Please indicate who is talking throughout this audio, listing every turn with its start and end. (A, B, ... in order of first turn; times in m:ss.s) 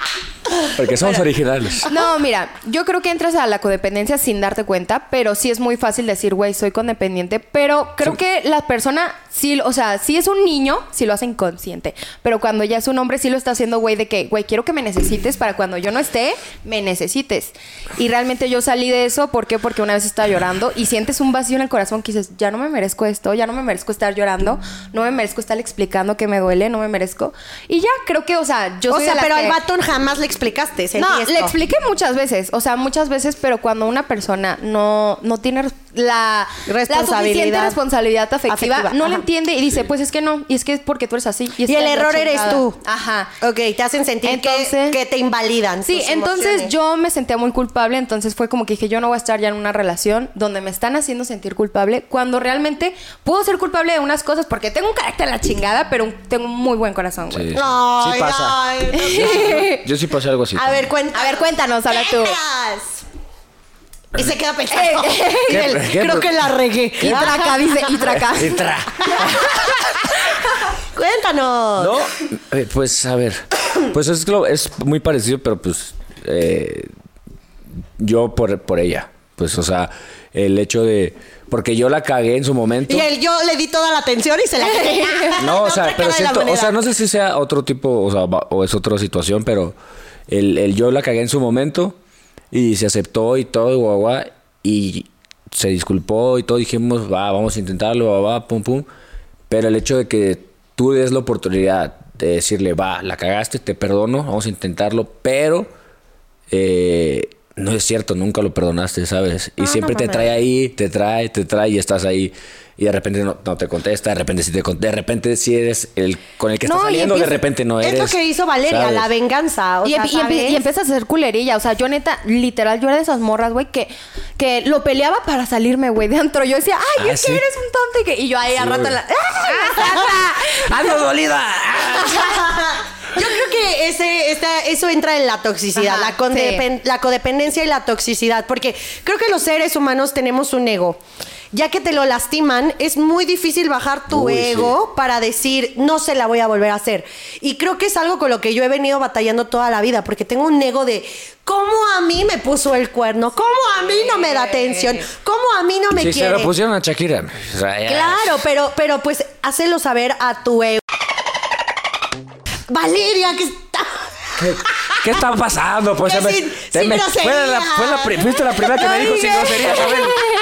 0:00.7-0:01.9 A
0:01.9-0:29.6 B
0:28.9-0:31.5 C
0:31.0-0:43.3 B
0:36.7-0:37.8 C
0:38.5-0:39.2 C
0:41.6-0:42.8 C
0:43.4-0:46.7 C
0:44.2-0:45.0 B
0:45.8-0:57.5 B
0:57.3-1:00.9 A
0:57.5-0:59.6 C
0:58.9-0:59.8 B
1:00.5-1:03.0 C
1:01.1-1:02.4 B
1:04.1-1:07.7 C
1:04.7-1:05.8 B
1:05.5-1:07.4 A
1:07.0-1:08.6 B
1:08.0-1:09.5 A
1:10.9-1:12.0 C
1:11.8-1:16.9 A
1:18.0-1:23.1 A
1:22.9-1:26.8 C
1:24.6-1:25.3 B
1:25.4-1:29.8 A
1:30.3-1:32.0 A
1:32.5-1:38.9 A
1:39.5-1:45.7 A
1:46.5-1:59.1 A
1:49.6-1:50.3 B
1:56.6-1:57.4 B
1:57.8-2:00.6 C
1:59.8-2:10.6 B
2:07.0-2:07.4 A
2:08.5-2:12.4 A
2:12.1-2:21.0 C
2:15.7-2:16.6 B
2:21.5-2:36.5 C
2:24.1-2:24.8 A
2:34.0-2:35.0 B
2:35.9-2:38.4 A
2:37.9-2:40.8 C
2:42.7-2:44.1 C
2:44.4-2:50.2 A
2:46.0-2:50.2 C